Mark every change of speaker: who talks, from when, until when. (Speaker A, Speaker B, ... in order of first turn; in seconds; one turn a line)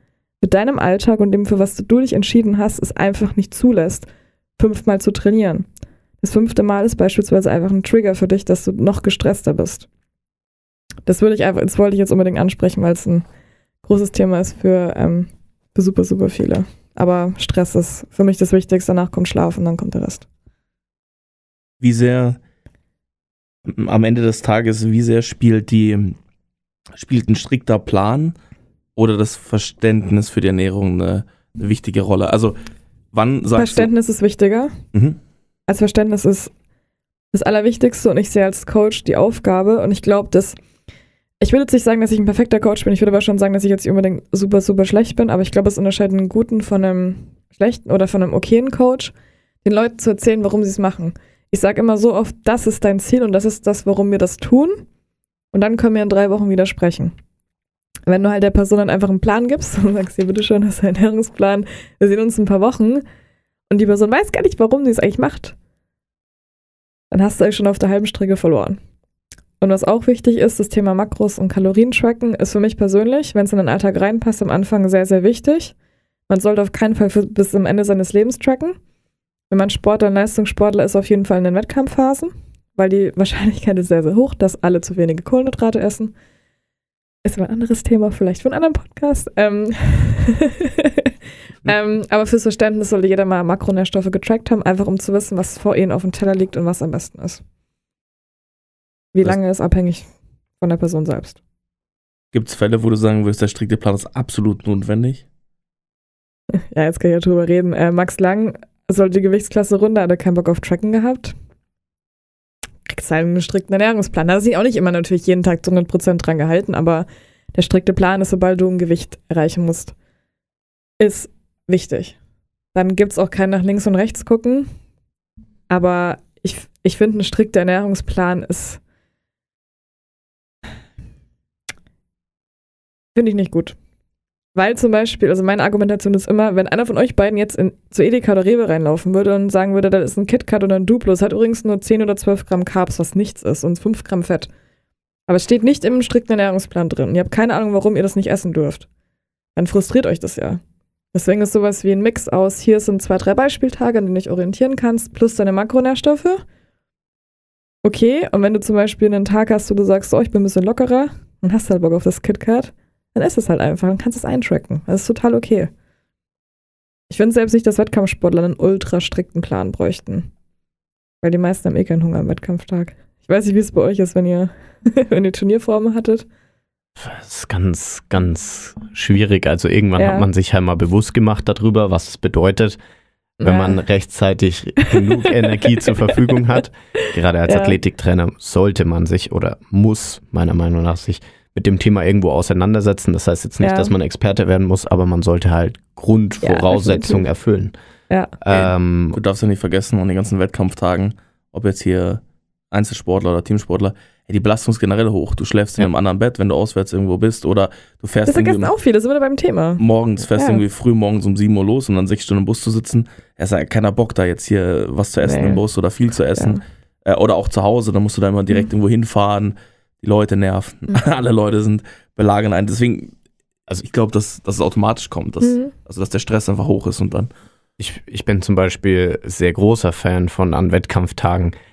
Speaker A: 0.4-4.1
Speaker A: 4.6-5.7
Speaker A: 6.2-9.8
Speaker A: 11.1-13.2
Speaker A: 13.8-20.2
Speaker B: 21.8-22.4
Speaker B: 23.6-26.2
Speaker B: 26.9-28.4
Speaker B: 28.9-32.5
Speaker B: 33.1-33.9
Speaker A: 33.5-34.8
Speaker B: 34.9-35.2
Speaker A: 35.7-36.5
Speaker A: 37.3-40.6
Speaker A: 41.4-49.1
Speaker A: 49.6-54.8
Speaker A: 55.5-57.1
Speaker A: 58.0-63.0
Speaker A: 63.7-65.5
Speaker A: 67.1-68.8
Speaker A: 69.6-75.7
Speaker A: 76.3-78.8
Speaker A: 79.5-86.1
Speaker A: 87.2-91.1
Speaker A: 91.6-97.4
Speaker A: 99.1-100.0
Speaker A: 100.6-101.4
Speaker B: 102.3-105.2
Speaker A: 106.5-111.3
Speaker A: 112.9-119.9
Speaker A: 121.0-122.1
Speaker A: 122.7-124.7
Speaker A: 125.7-128.8
Speaker A: 133.1-133.8
Speaker A: 134.5-144.5
Speaker A: 145.3-148.8
Speaker A: 149.6-150.6
Speaker A: 151.1-156.4
Speaker A: 157.8-165.7
Speaker A: 167.1-170.3
Speaker A: 171.2-176.2
Speaker C: 177.0-182.8
Speaker A: 180.0-180.2
Speaker A: 183.4-183.8
Speaker C: 183.4-197.7
Speaker A: 184.8-186.4
Speaker A: 187.5-187.8
Speaker A: 193.6-193.9
Speaker A: 196.4-197.2
Speaker C: 198.4-199.2
Speaker B: 198.5-208.7
Speaker A: 208.3-209.8
Speaker B: 209.8-223.1
Speaker A: 210.3-210.6
Speaker A: 215.2-215.6
Speaker B: 223.7-227.3
Speaker A: 225.4-225.7
Speaker C: 227.8-231.5